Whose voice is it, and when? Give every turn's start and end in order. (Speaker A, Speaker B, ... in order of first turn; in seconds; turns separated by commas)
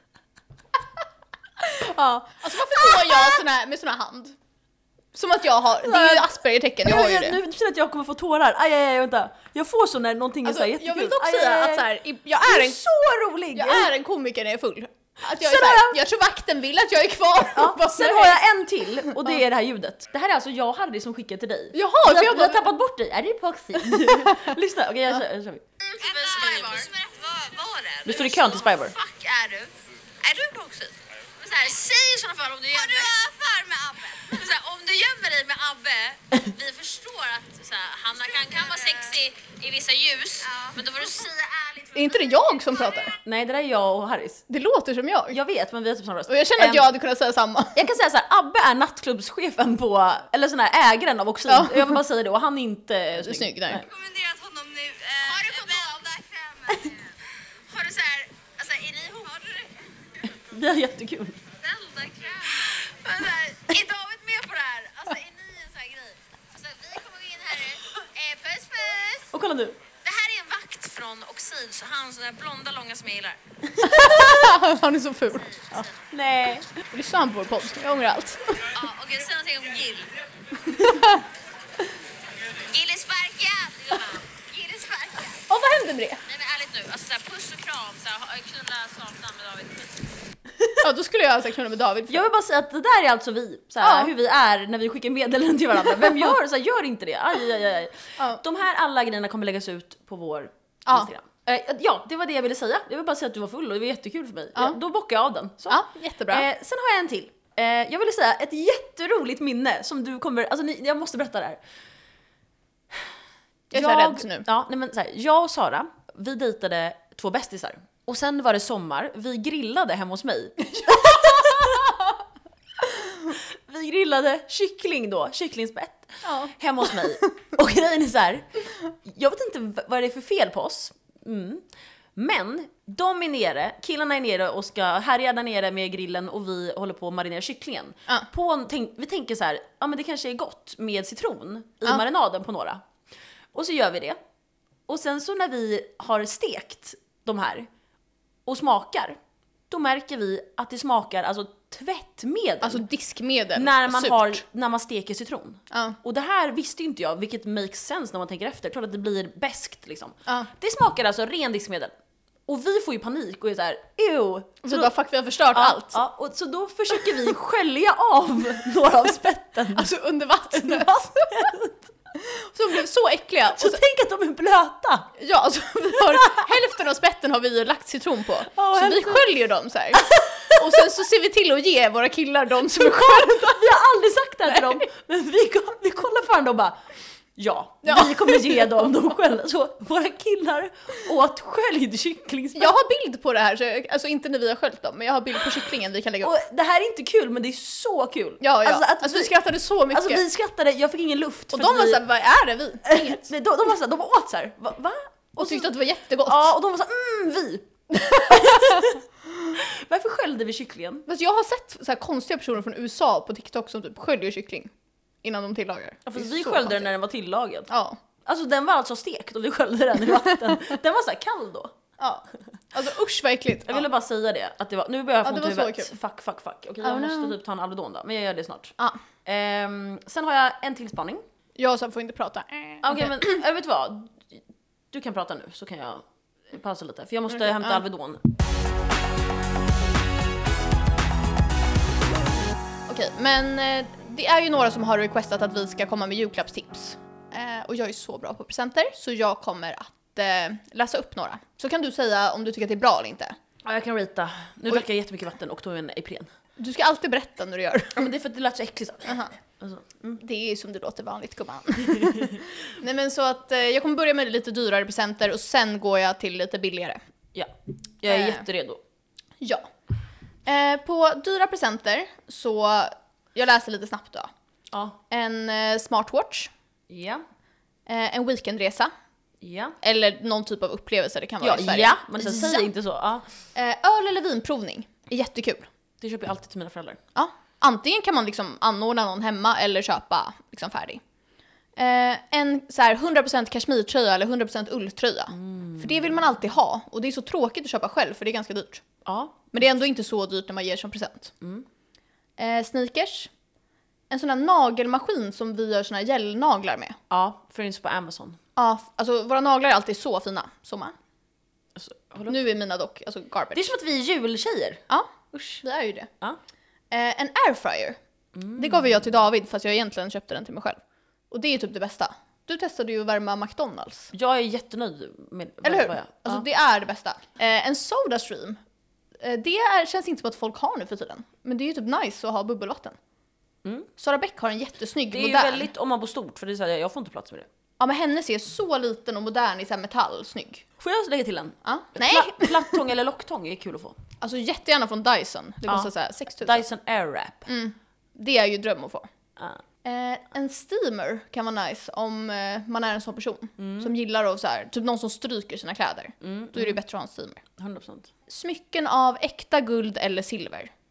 Speaker A: 1.6-4.4, Speaker B: 2.6-3.4, Speaker A: 5.1-7.4, Speaker B: 5.8-6.3, Speaker B: 6.8-11.9, Speaker A: 10.4-12.8, Speaker B: 12.4-13.9, Speaker A: 13.5-18.4, Speaker B: 15.3-16.0, Speaker B: 17.5-25.6, Speaker A: 19.0-19.3, Speaker A: 21.7-22.6, Speaker A: 23.8-24.5, Speaker C: 25.9-42.2, Speaker B: 28.0-28.9, Speaker A: 41.9-43.1, Speaker B: 43.2-44.4, Speaker A: 44.5-45.4, Speaker B: 45.3-46.9, Speaker A: 46.3-47.8, Speaker B: 47.7-53.9, Speaker A: 51.5-52.0, Speaker A: 53.2-53.9, Speaker C: 53.9-57.1, Speaker C: 57.7-59.9, Speaker B: 60.2-61.4, Speaker C: 61.6-69.3, Speaker B: 69.3-69.8, Speaker C: 70.0-73.4, Speaker A: 73.8-75.5, Speaker B: 73.8-74.5, Speaker C: 75.4-75.9, Speaker B: 75.7-76.7, Speaker A: 76.9-78.7, Speaker C: 78.7-80.1, Speaker A: 80.7-81.2, Speaker C: 82.7-85.4, Speaker A: 85.5-86.2, Speaker C: 86.2-90.1, Speaker A: 90.8-92.3, Speaker B: 92.1-111.6, Speaker A: 93.8-94.1, Speaker A: 95.9-96.2, Speaker A: 105.7-106.5, Speaker A: 113.7-114.4, Speaker B: 113.7-121.9, Speaker A: 120.8-121.6, Speaker B: 123.3-128.5, Speaker A: 126.2-126.5, Speaker B: 129.0-131.6, Speaker B: 132.2-142.8, Speaker B: 143.5-144.2, Speaker B: 144.9-147.7, Speaker B: 148.4-149.2, Speaker B: 149.7-152.8, Speaker A: 152.6-154.4, Speaker B: 153.5-161.9, Speaker A: 155.7-156.0, Speaker B: 162.5-164.9, Speaker A: 164.6-166.0, Speaker B: 165.5-169.9, Speaker A: 169.7-171.5, Speaker B: 170.5-171.8, Speaker A: 172.2-173.8, Speaker B: 173.5-175.1, Speaker A: 175.2-183.7, Speaker B: 176.1-176.5, Speaker B: 178.5-179.3, Speaker B: 179.9-180.9, Speaker B: 182.7-186.8, Speaker A: 184.5-184.8, Speaker B: 187.4-192.7, Speaker A: 187.8-188.8, Speaker A: 192.5-196.3, Speaker B: 196.2-199.3, Speaker A: 198.4-200.2, Speaker B: 199.9-202.0, Speaker A: 201.5-203.2, Speaker B: 202.8-205.7, Speaker A: 205.4-206.5, Speaker B: 206.2-209.0, Speaker A: 207.9-208.9, Speaker B: 209.5-211.0, Speaker A: 211.1-214.7, Speaker A: 215.2-216.9, Speaker B: 216.1-217.7, Speaker A: 217.7-218.0, Speaker B: 218.2-221.7, Speaker A: 222.0-223.9, Speaker B: 223.7-231.2, Speaker A: 225.2-225.9, Speaker A: 226.8-227.3, Speaker A: 231.6-233.4, Speaker B: 232.8-238.2, Speaker A: 237.3-237.8, Speaker A: 242.9-253.3, Speaker B: 253.6-256.3, Speaker A: 256.6-258.1, Speaker B: 257.9-260.1, Speaker A: 259.1-259.3, Speaker A: 260.1-267.0, Speaker B: 262.0-262.2, Speaker B: 267.3-268.8, Speaker A: 268.1-268.4, Speaker A: 269.4-269.7, Speaker A: 270.4-274.3, Speaker B: 274.7-275.0, Speaker A: 275.1-276.5, Speaker B: 276.9-277.2, Speaker A: 277.9-278.9, Speaker B: 279.4-279.8, Speaker A: 279.8-282.7, Speaker B: 281.4-283.2, Speaker A: 283.5-285.7, Speaker B: 286.0-287.0, Speaker A: 287.1-291.0, Speaker A: 291.8-298.8, Speaker B: 295.3-296.1, Speaker B: 299.0-299.5, Speaker A: 299.5-301.3, Speaker B: 301.4-301.6, Speaker A: 302.4-303.3, Speaker A: 304.1-307.0, Speaker B: 307.1-308.4, Speaker A: 308.6-310.9, Speaker B: 311.8-312.4, Speaker A: 312.3-313.7, Speaker B: 313.5-315.6, Speaker A: 314.9-316.1, Speaker A: 316.9-318.0, Speaker B: 318.4-319.1, Speaker A: 318.5-320.8, Speaker A: 321.3-324.1, Speaker B: 324.1-326.4, Speaker A: 325.6-328.6, Speaker A: 329.2-333.0, Speaker B: 333.6-333.9, Speaker A: 334.0-335.7, Speaker B: 335.1-337.5, Speaker A: 337.8-340.6, Speaker B: 340.8-344.0, Speaker A: 341.6-342.8, Speaker A: 344.2-346.6, Speaker B: 345.7-347.5, Speaker A: 347.5-349.1, Speaker A: 349.8-357.4, Speaker B: 353.6-353.9, Speaker B: 356.2-356.8, Speaker B: 357.6-358.1, Speaker A: 358.3-360.7